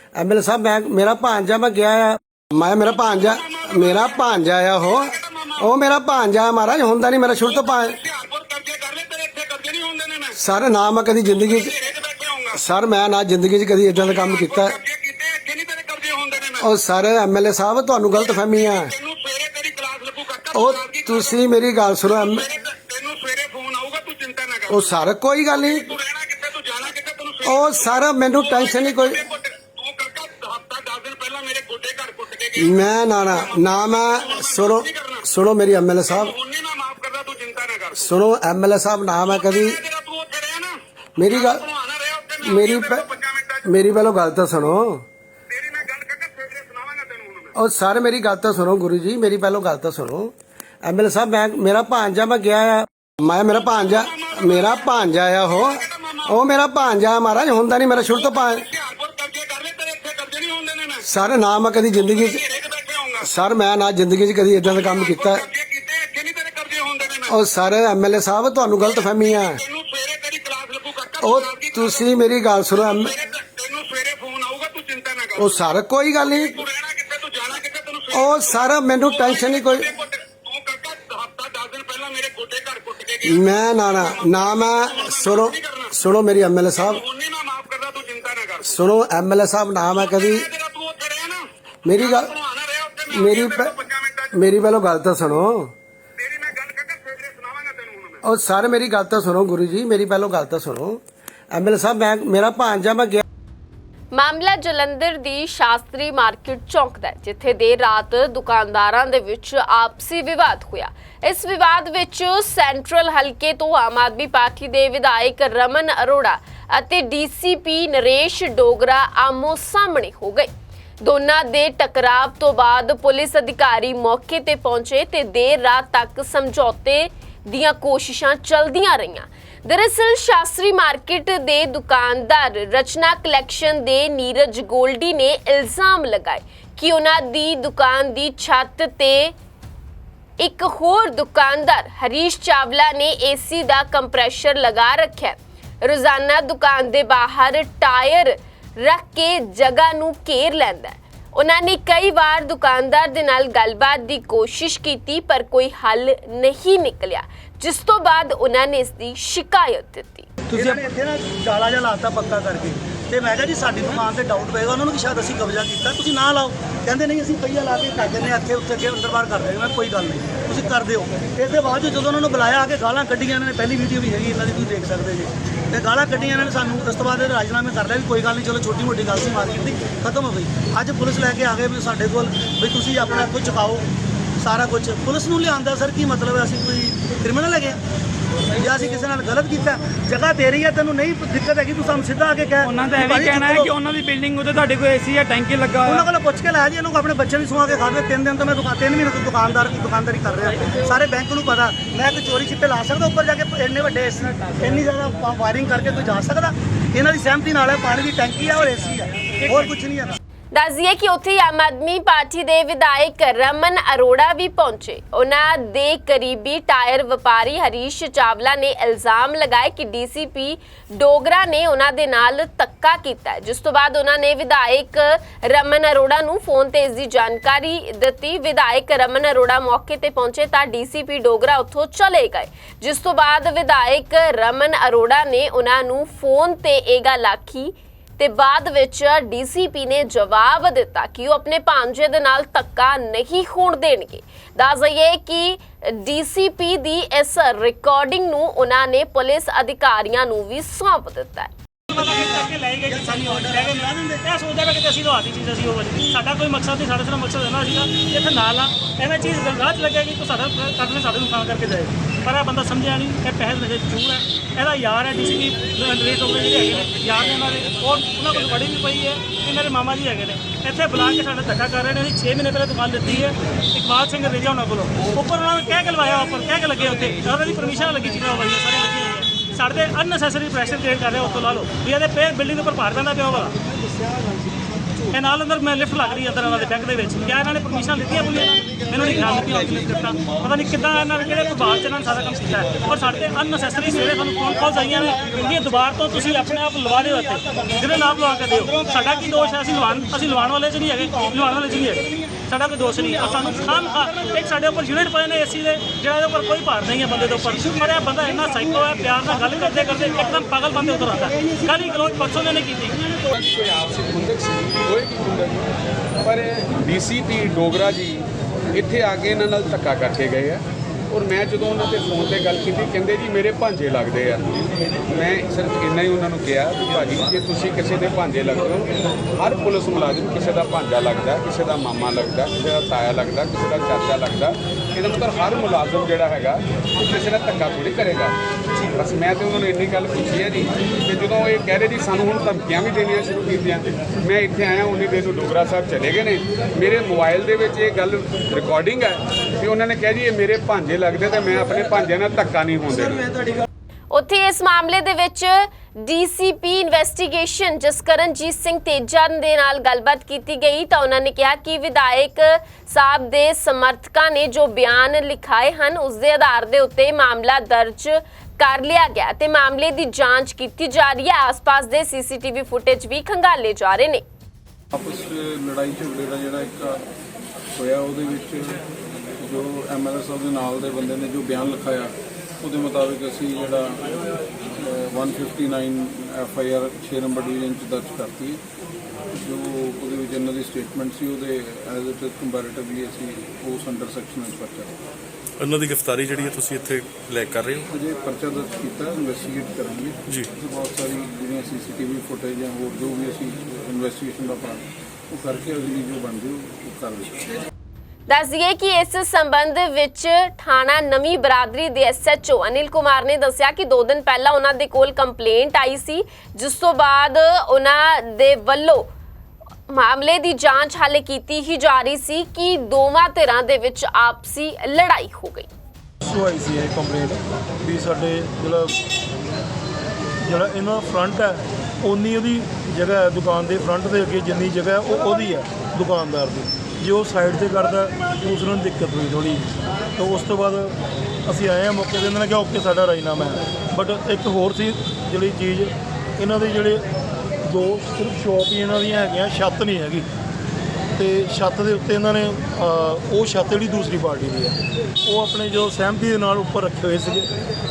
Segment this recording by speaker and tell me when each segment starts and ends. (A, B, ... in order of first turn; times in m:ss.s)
0:00.2-0:08.0 A
0:03.2-0:05.7 B
0:07.4-0:10.4 B
0:10.4-0:11.7 A
0:11.4-0:12.6 B
0:12.5-0:14.8 A
0:14.0-0:16.7 B
0:16.6-0:18.9 A
0:18.1-0:21.4 B
0:20.5-0:22.4 A
0:22.1-0:25.0 B
0:24.7-0:25.9 A
0:25.6-0:35.3 B
0:27.4-0:29.2 A
0:32.6-0:36.3 A
0:36.1-0:38.1 B
0:38.0-0:39.8 A
0:39.2-0:43.7 B
0:41.2-0:41.6 A
0:42.4-0:43.0 A
0:43.6-0:45.0 A
0:45.5-0:47.6 B
0:47.6-0:58.6 A
0:53.8-0:54.9 B
0:55.5-0:56.4 B
0:58.4-1:01.1 B
1:01.0-1:02.4 A
1:02.1-1:03.3 B
1:03.2-1:05.4 A
1:04.7-1:07.4 B
1:07.3-1:09.6 A
1:08.8-1:12.2 B
1:11.2-1:13.1 A
1:12.8-1:15.6 B
1:15.4-1:16.6 A
1:16.3-1:26.0 B
1:18.1-1:19.9 A
1:23.2-1:27.0 A
1:26.8-1:28.8 B
1:28.6-1:30.5 A
1:30.0-1:34.4 B
1:31.8-1:32.3 A
1:33.1-1:33.7 A
1:34.3-1:35.7 A
1:36.2-1:38.2 B
1:38.2-1:41.0 A
1:41.5-1:43.2 A
1:44.1-2:00.5 C
2:01.0-2:19.3 C
2:20.4-2:40.3 C
2:40.5-2:40.8 D
2:40.6-3:03.9 E
3:04.4-3:07.8 E
3:08.6-3:13.7 E
3:12.6-3:16.0 D
3:15.9-3:30.2 E
3:29.4-3:29.7 F
3:30.5-4:11.5 C
4:11.9-4:43.5 F
4:12.3-4:14.1 E
4:45.1-5:13.1 F
5:13.4-5:15.7 B
5:16.3-5:38.4 B
5:39.0-5:53.2 B
5:54.1-6:14.2 C
6:14.9-6:17.0 G
6:17.8-6:18.8 G
6:19.4-6:24.2 G
6:24.8-6:28.6 G
6:29.3-6:35.0 G
6:35.6-6:37.9 H
6:37.9-6:47.5 G
6:40.3-6:40.5 H
6:48.3-6:59.1 C
6:59.9-7:05.7 C
7:06.2-7:09.0 I
7:10.4-7:27.0 I
7:27.6-7:30.3 I
7:31.2-7:37.5 I